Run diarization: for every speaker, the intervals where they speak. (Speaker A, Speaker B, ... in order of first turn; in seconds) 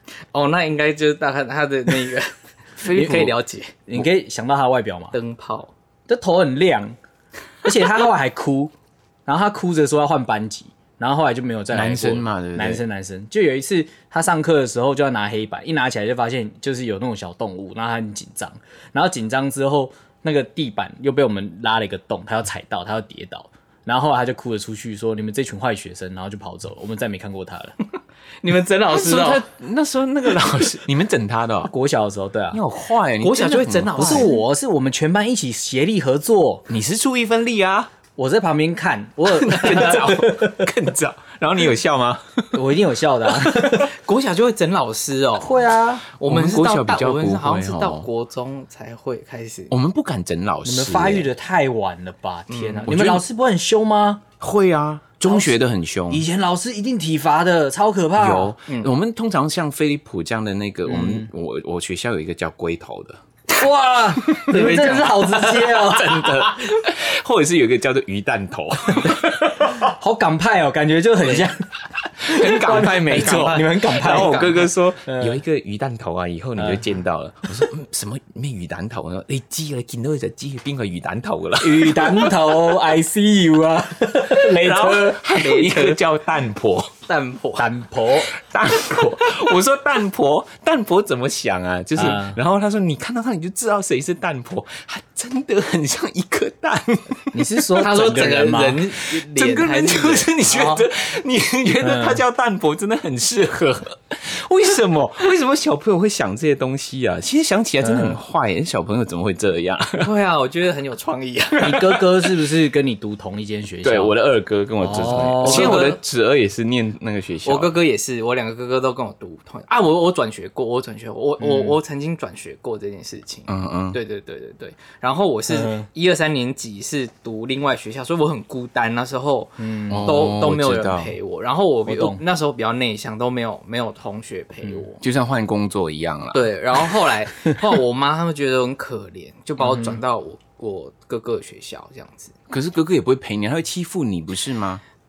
Speaker A: 0.3-2.3, 2.9-3.8, 5.1-5.7, 28.4-29.4, 33.2-34.4, 43.7-49.7, 52.5-52.9, 64.4-66.5, 73.0-74.7, 85.3-86.0, 87.1-87.7, 97.8-100.8, 110.0-111.9, 115.4-116.0, 117.5-135.0, 136.3-142.3
Speaker B: 2.8-3.4, 11.7-12.8, 28.9-31.7, 32.5-34.3, 36.7-37.9, 39.2-42.6, 46.2-48.1, 49.7-51.3, 52.9-53.2, 54.4-56.3, 58.1-63.2, 65.7-69.3, 72.2-82.6, 84.2-86.9, 88.3-98.4, 99.1-110.1, 113.8-117.8, 123.5-124.0, 129.9-131.1, 135.0-136.5, 142.5-144.8
Speaker C: 3.0-3.3, 3.9-5.1, 6.1-7.0, 7.6-8.7, 9.3-27.8, 31.7-32.6, 34.0-36.7, 38.2-40.6, 42.5-43.9, 45.4-46.1, 50.6-54.2, 55.3-55.5, 56.1-58.5, 60.9-61.3, 63.6-66.4, 69.0-71.6, 72.2-75.4, 76.6-76.9, 81.6-85.2, 87.6-88.3, 92.0-92.4, 97.3-98.8, 101.8-102.2, 107.8-108.2, 111.6-114.2, 114.8-115.8, 121.4-121.8, 125.5-125.9, 129.6-130.1, 131.9-132.2, 139.6-140.0